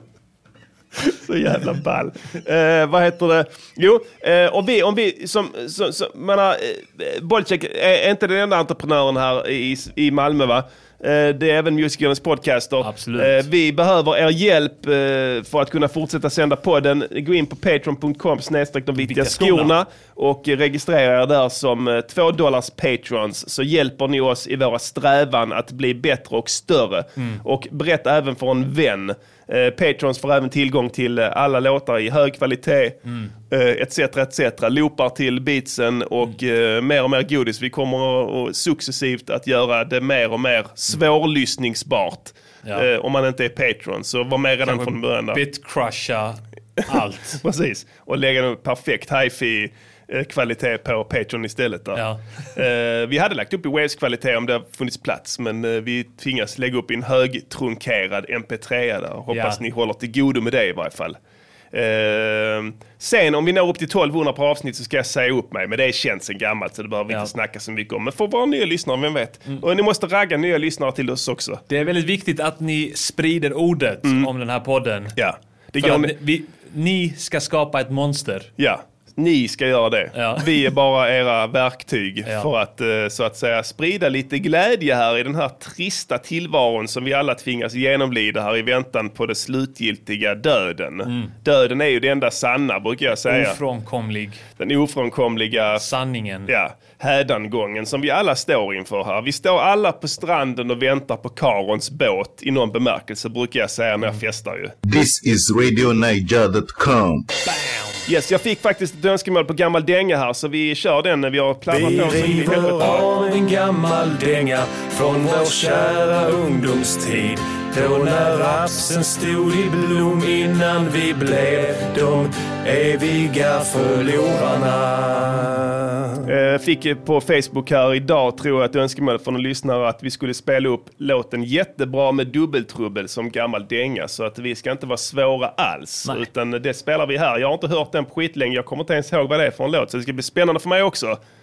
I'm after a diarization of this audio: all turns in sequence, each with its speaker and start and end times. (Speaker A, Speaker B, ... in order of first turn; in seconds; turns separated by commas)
Speaker A: 1.0-45.4, Speaker B: 12.8-13.4, Speaker B: 19.0-19.7, Speaker B: 44.7-47.4, Speaker A: 47.4-52.0, Speaker B: 52.0-52.2, Speaker A: 52.5-61.2, Speaker B: 59.3-59.6, Speaker A: 61.7-71.6, Speaker B: 71.7-75.2, Speaker A: 75.2-76.1, Speaker B: 75.8-78.5, Speaker A: 78.6-93.6, Speaker B: 80.1-80.5, Speaker B: 91.1-91.3, Speaker B: 93.3-94.4, Speaker A: 94.6-95.8, Speaker B: 95.8-96.5, Speaker A: 96.5-104.7, Speaker C: 104.8-107.3, Speaker A: 108.1-113.1, Speaker D: 111.7-126.0, Speaker A: 126.3-141.2